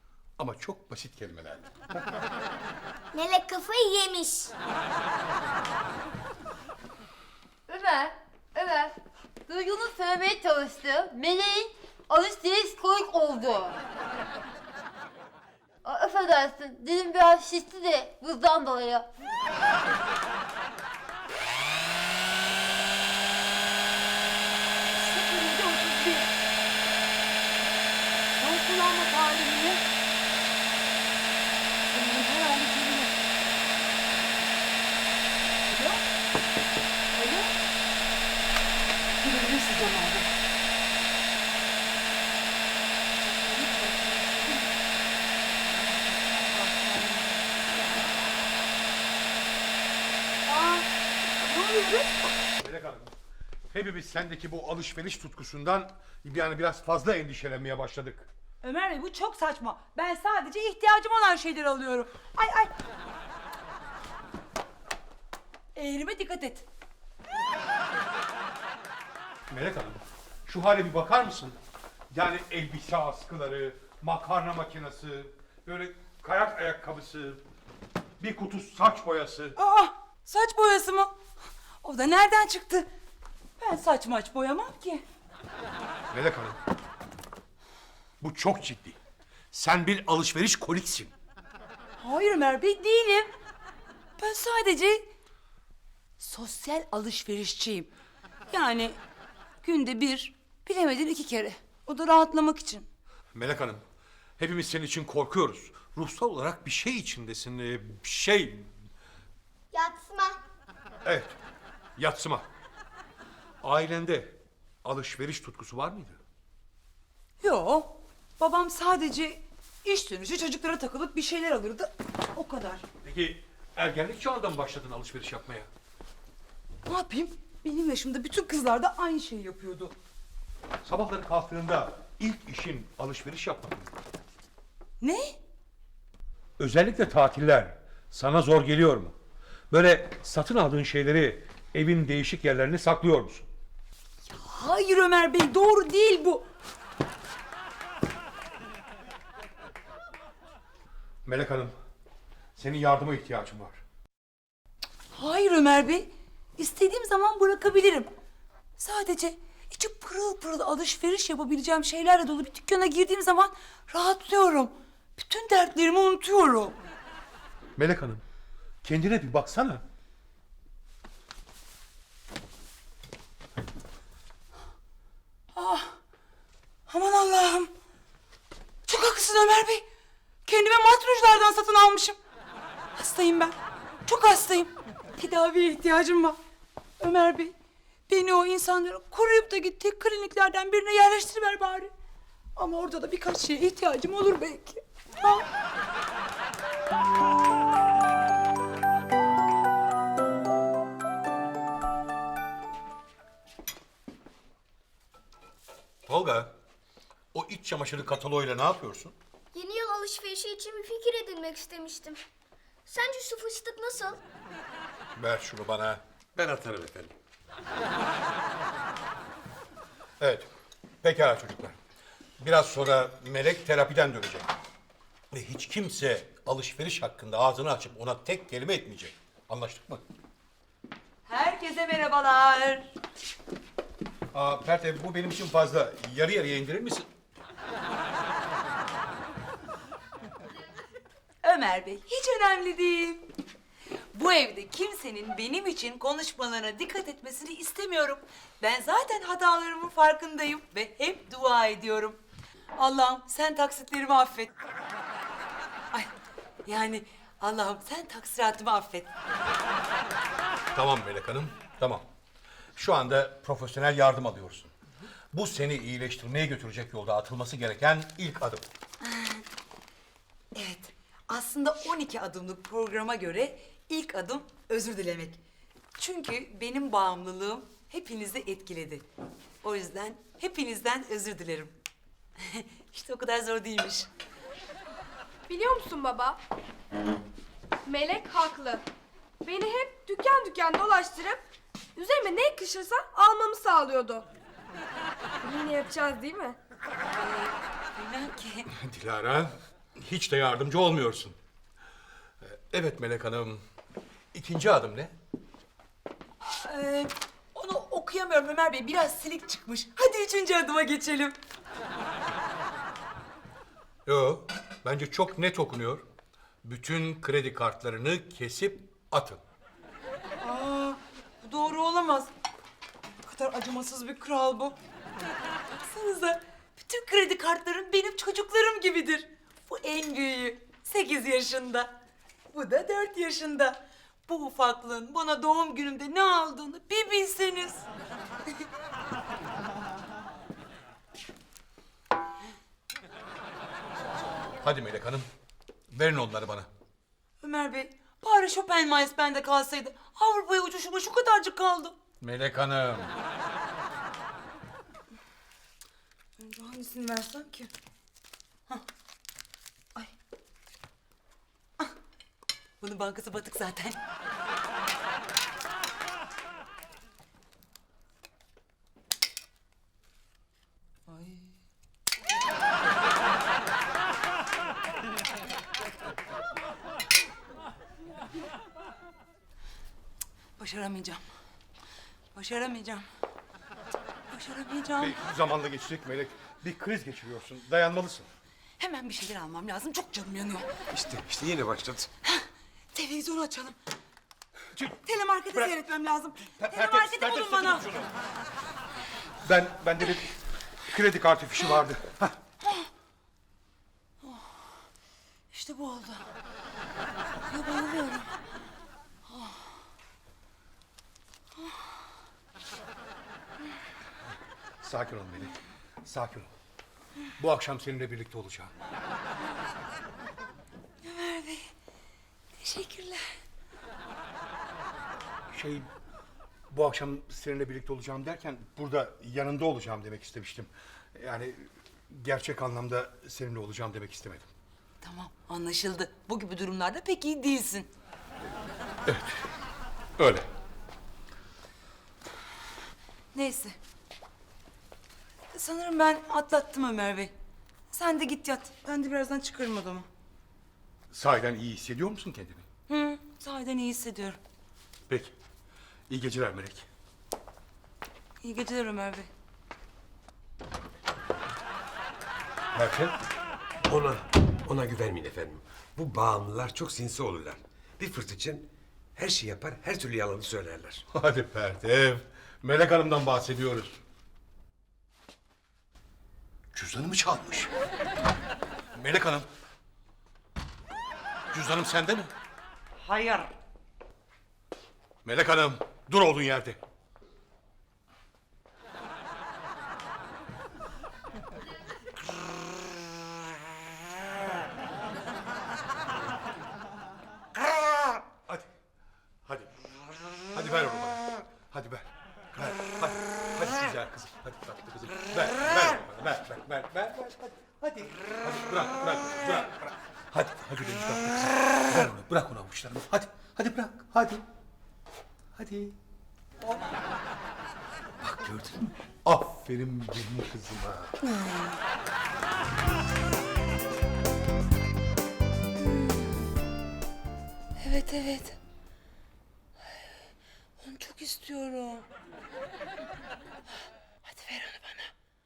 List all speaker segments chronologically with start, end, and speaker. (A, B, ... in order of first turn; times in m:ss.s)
0:00.4-0:02.0 A
0:03.1-0:04.5 B
0:07.7-0:08.9 C
0:09.4-0:13.8 C
0:15.8-0:19.1 C
0:24.9-0:26.3 D
0:28.4-0:29.8 D
0:31.9-0:33.3 D
0:35.6-0:36.0 D
0:37.1-0:37.5 D
0:39.2-0:40.3 D
0:43.2-0:44.7 D
0:45.4-0:47.5 D
0:50.4-0:52.3 D
0:52.6-0:53.1 A
0:53.7-0:58.3 A
0:58.6-1:02.7 D
1:05.7-1:06.6 D
1:09.5-1:11.6 A
1:12.1-1:17.4 A
1:18.2-1:19.6 A
1:19.6-1:21.2 D
1:21.8-1:22.9 D
1:23.6-1:25.0 D
1:26.1-1:26.6 A
1:28.2-1:29.0 A
1:29.5-1:31.1 A
1:32.0-1:33.3 D
1:34.2-1:35.1 D
1:36.2-1:37.9 D
1:38.5-1:39.0 D
1:39.6-1:42.9 D
1:43.3-1:43.8 A
1:44.4-1:48.7 A
1:49.7-1:50.4 B
1:51.0-1:51.4 A
1:52.0-1:52.5 A
1:53.6-1:56.2 A
1:57.4-2:02.8 D
2:03.0-2:05.7 A
2:06.8-2:09.9 D
2:10.8-2:13.9 A
2:15.0-2:15.4 D
2:16.6-2:19.1 A
2:19.7-2:23.5 A
2:24.3-2:26.4 D
2:31.2-2:31.7 A
2:32.6-2:33.8 A
2:35.1-2:38.1 D
2:38.8-2:46.8 D
2:47.8-2:48.2 A
2:48.8-2:49.8 A
2:55.5-2:56.0 D
2:56.9-2:57.7 D
2:58.8-2:59.8 D
3:00.4-3:02.2 D
3:03.0-3:06.4 D
3:07.0-3:07.5 D
3:08.1-3:11.9 D
3:12.6-3:15.5 D
3:26.0-3:26.5 A
3:27.3-3:29.1 A
3:29.5-3:32.2 B
3:32.9-3:34.2 B
3:35.2-3:36.0 A
3:36.4-3:37.1 E
3:40.2-3:40.5 A
3:41.0-3:41.8 A
3:42.4-3:44.5 A
3:45.3-3:50.0 A
3:51.3-3:52.9 D
3:54.3-3:57.1 A
4:01.4-4:03.3 D
4:04.1-4:12.2 D
4:12.8-4:14.5 D
4:16.6-4:19.1 D
4:20.7-4:22.0 A
4:22.7-4:24.7 A
4:25.3-4:28.6 A
4:29.0-4:29.4 D
4:30.5-4:35.4 D
4:36.0-4:39.0 D
4:39.6-4:41.7 D
4:42.4-4:44.1 D
4:45.5-4:46.4 F
4:47.8-4:48.8 F
4:49.4-4:51.4 F
4:52.0-4:54.3 F
4:55.4-4:56.6 F
4:57.1-4:58.7 D
4:58.7-5:01.4 A
5:02.4-5:03.6 A
5:04.3-5:05.1 A
5:06.4-5:11.4 D
5:14.0-5:16.0 A
5:16.6-5:19.4 A
5:20.4-5:22.3 D
5:23.2-5:24.8 D
5:25.8-5:31.9 D
5:32.5-5:37.8 D
5:44.6-5:45.3 A
5:45.9-5:46.7 A
5:47.4-5:52.0 D
5:52.2-5:53.2 A
5:56.4-5:57.7 D
6:02.8-6:04.0 D
6:11.1-6:11.5 D
6:20.6-6:21.2 D
6:22.3-6:23.0 D
6:24.3-6:25.2 D
6:25.0-6:28.3 A
6:28.8-6:30.7 D
6:30.9-6:32.1 E
6:32.2-6:33.8 D
6:35.0-6:37.9 D
6:36.6-6:38.1 A
6:39.4-6:40.3 A
6:40.8-6:42.4 A
6:42.6-6:42.9 D
6:44.2-6:44.6 D
6:45.5-6:46.3 D
6:47.5-6:48.4 D
6:49.3-6:49.6 D
6:54.8-6:56.5 A
6:57.4-6:58.7 A
7:01.0-7:01.7 D
7:02.6-7:03.4 D
7:05.5-7:05.9 A
7:06.7-7:14.5 A
7:15.0-7:17.9 D
7:19.0-7:19.4 A
7:20.2-7:20.5 A
7:23.3-7:23.8 D
7:25.5-7:27.3 D
7:27.9-7:30.1 D
7:31.1-7:32.6 A
7:32.9-7:34.4 D
7:35.1-7:35.3 A
7:36.1-7:36.9 A
7:38.4-7:39.3 D
7:42.7-7:43.2 A
7:43.8-7:51.0 E
7:51.1-7:54.0 A
7:56.7-7:57.7 A
7:58.9-7:59.5 A
8:01.5-8:02.3 A
8:05.2-8:06.8 A
8:18.4-8:18.7 A
8:19.4-8:19.7 A
8:20.5-8:34.4 A
8:35.5-8:36.0 A
8:38.2-8:41.2 A
8:41.3-8:41.7 D
8:45.8-8:46.4 D
8:47.8-8:48.6 D
8:50.8-8:52.0 D
8:54.2-8:55.1 D